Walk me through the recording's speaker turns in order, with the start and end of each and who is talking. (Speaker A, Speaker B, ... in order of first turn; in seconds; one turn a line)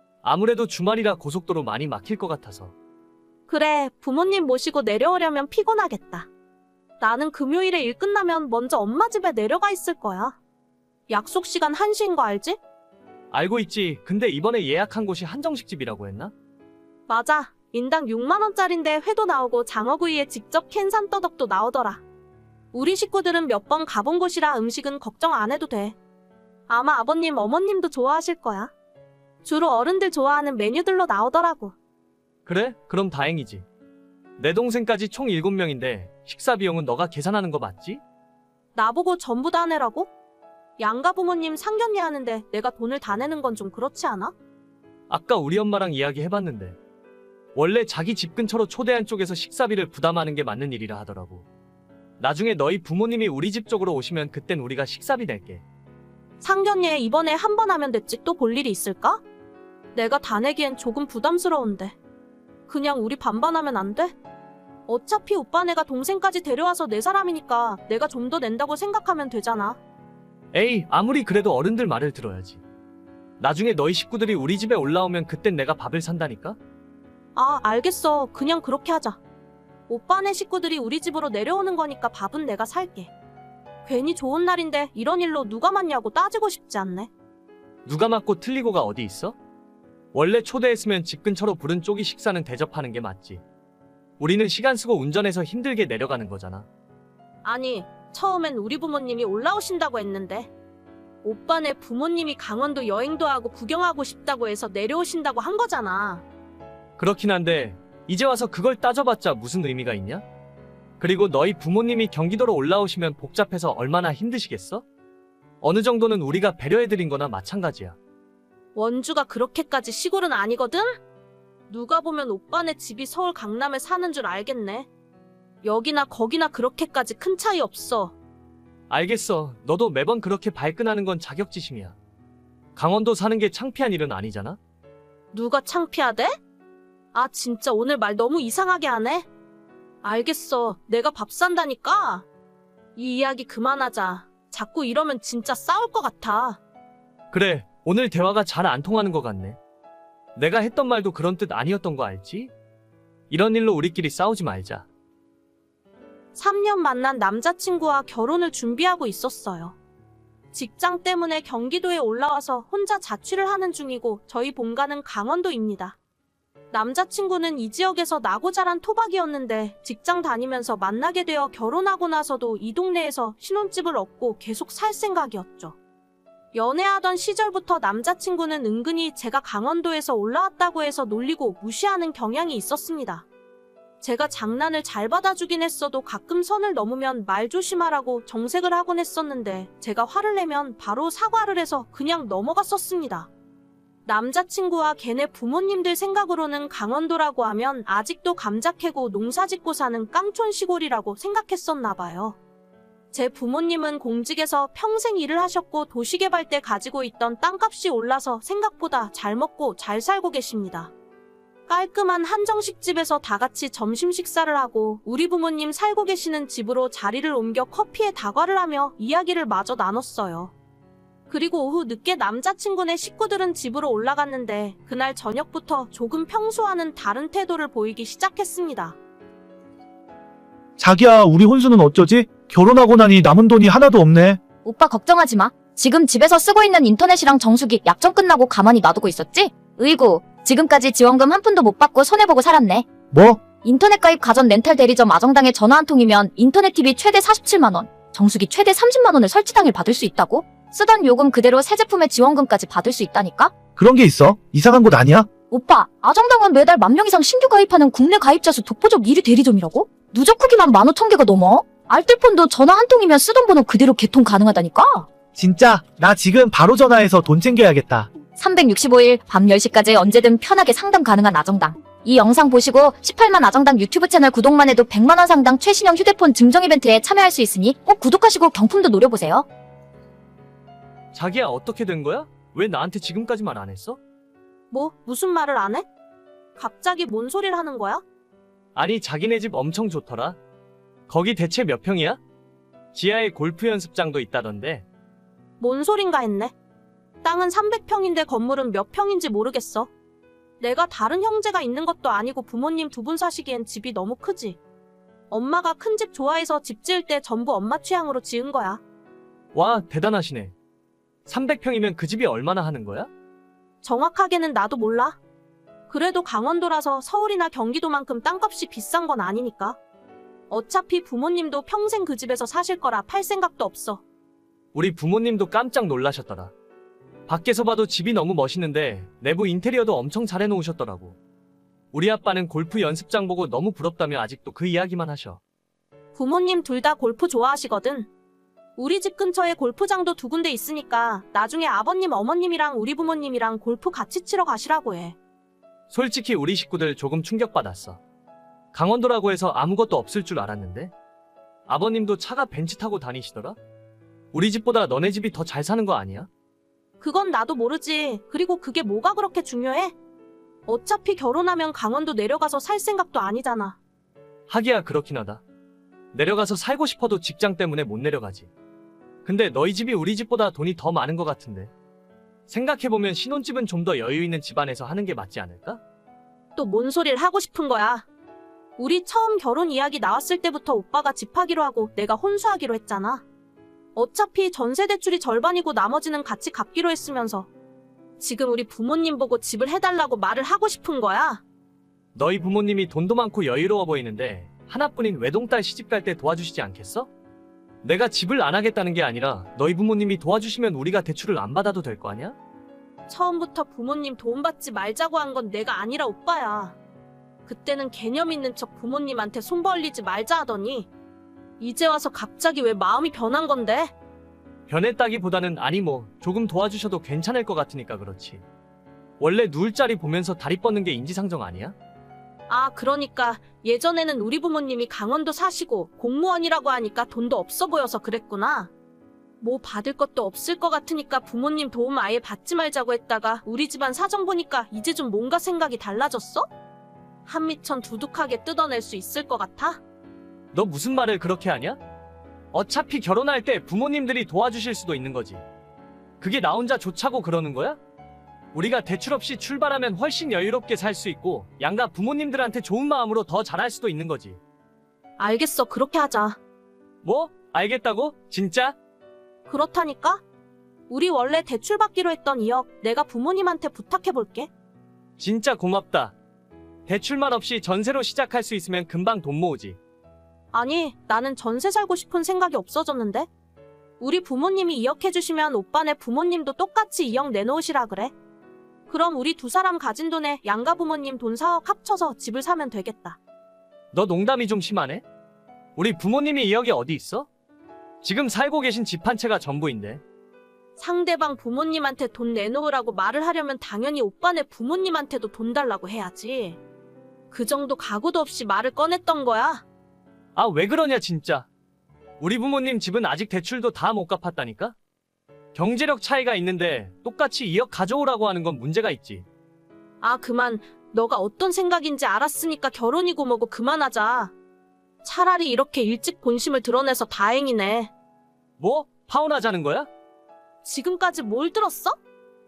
Speaker A: 0.2-2.7
Speaker B: 3.5-6.3
Speaker B: 7.0-10.3
Speaker B: 11.1-12.6
Speaker A: 13.3-16.3
Speaker B: 17.1-22.0
Speaker B: 22.7-25.9
Speaker B: 26.7-28.7
Speaker B: 29.4-31.7
Speaker A: 32.5-33.6
Speaker A: 34.4-38.0
Speaker B: 38.7-40.1
Speaker B: 40.8-44.3
Speaker A: 45.1-46.8
Speaker A: 47.5-51.5
Speaker A: 52.2-55.6
Speaker B: 56.4-59.2
Speaker B: 59.9-62.0
Speaker B: 62.7-64.1
Speaker B: 64.9-69.8
Speaker A: 70.5-72.6
Speaker A: 73.4-76.6
Speaker B: 77.3-79.2
Speaker B: 79.9-83.1
Speaker B: 83.8-87.1
Speaker A: 87.8-89.3
Speaker A: 90.1-93.4
Speaker A: 94.2-96.7
Speaker B: 97.4-100.5
Speaker B: 101.2-106.2
Speaker A: 107.0-110.2
Speaker A: 111.0-114.8
Speaker A: 115.6-118.0
Speaker B: 118.7-121.0
Speaker B: 121.7-124.9
Speaker B: 125.6-128.1
Speaker A: 128.9-132.0
Speaker A: 132.8-134.6
Speaker B: 135.3-136.3
Speaker B: 137.1-139.3
Speaker B: 140.0-142.2
Speaker B: 142.9-146.6
Speaker A: 147.3-149.6
Speaker A: 150.3-152.5
Speaker A: 153.3-154.9
Speaker B: 156.3-159.8
Speaker B: 160.5-166.0
Speaker B: 166.7-175.8
Speaker B: 176.5-183.2
Speaker B: 184.0-193.3
Speaker B: 194.1-202.4
Speaker B: 203.1-210.9
Speaker B: 211.7-220.5
Speaker B: 221.3-229.0
Speaker C: 230.8-234.4
Speaker D: 234.6-242.9
Speaker C: 243.1-243.4
Speaker D: 243.6-253.5
Speaker C: 253.8-255.3
Speaker D: 255.5-265.1
Speaker C: 265.3-268.1
Speaker D: 268.4-279.4
Speaker A: 281.1-284.0
Speaker B: 284.7-285.9
Speaker B: 286.6-288.0
Speaker A: 288.7-290.4
Speaker A: 291.1-292.2
Speaker A: 292.9-294.9
Speaker B: 295.6-296.5
Speaker B: 297.2-299.9
Speaker B: 300.6-304.6
Speaker B: 305.3-308.8
Speaker A: 309.5-310.5
Speaker A: 311.2-313.1
Speaker B: 313.8-315.2
Speaker B: 315.9-319.8
Speaker B: 320.5-324.0
Speaker A: 324.7-326.5
Speaker A: 327.3-331.2
Speaker A: 331.9-335.4
Speaker B: 336.1-338.1
Speaker B: 338.8-345.1
Speaker A: 345.9-348.0
Speaker A: 348.7-350.9
Speaker A: 351.7-353.6
Speaker A: 354.3-356.3
Speaker B: 357.0-359.9
Speaker B: 360.7-363.8
Speaker A: 364.5-365.4
Speaker A: 366.1-368.5
Speaker A: 369.2-371.7
Speaker A: 372.5-375.8
Speaker B: 376.6-378.1
Speaker B: 378.8-383.2
Speaker B: 383.9-387.5
Speaker B: 388.2-391.4
Speaker A: 392.1-397.1
Speaker A: 397.8-402.4
Speaker B: 403.1-406.8
Speaker B: 407.5-410.9
Speaker B: 411.6-413.9
Speaker A: 414.7-418.4
Speaker A: 419.2-421.7
Speaker B: 422.5-428.7
Speaker B: 429.4-436.5
Speaker B: 437.3-439.8
Speaker A: 440.5-441.8
Speaker A: 442.5-445.4
Speaker A: 446.2-447.8
Speaker A: 448.5-454.4
Speaker B: 455.2-456.4
Speaker A: 457.0-458.8
Speaker B: 459.5-460.2
Speaker B: 460.9-464.5
Speaker A: 465.2-466.1
Speaker A: 466.9-469.8
Speaker B: 470.5-473.3
Speaker B: 474.0-478.1
Speaker B: 478.9-483.2
Speaker A: 483.9-485.0
Speaker A: 485.8-487.3
Speaker A: 488.0-490.0
Speaker B: 490.8-496.6
Speaker B: 497.3-499.6
Speaker A: 500.3-501.5
Speaker A: 502.2-504.8
Speaker A: 505.5-509.2
Speaker B: 510.0-514.3
Speaker B: 515.0-517.9
Speaker A: 518.6-519.9
Speaker B: 520.6-522.0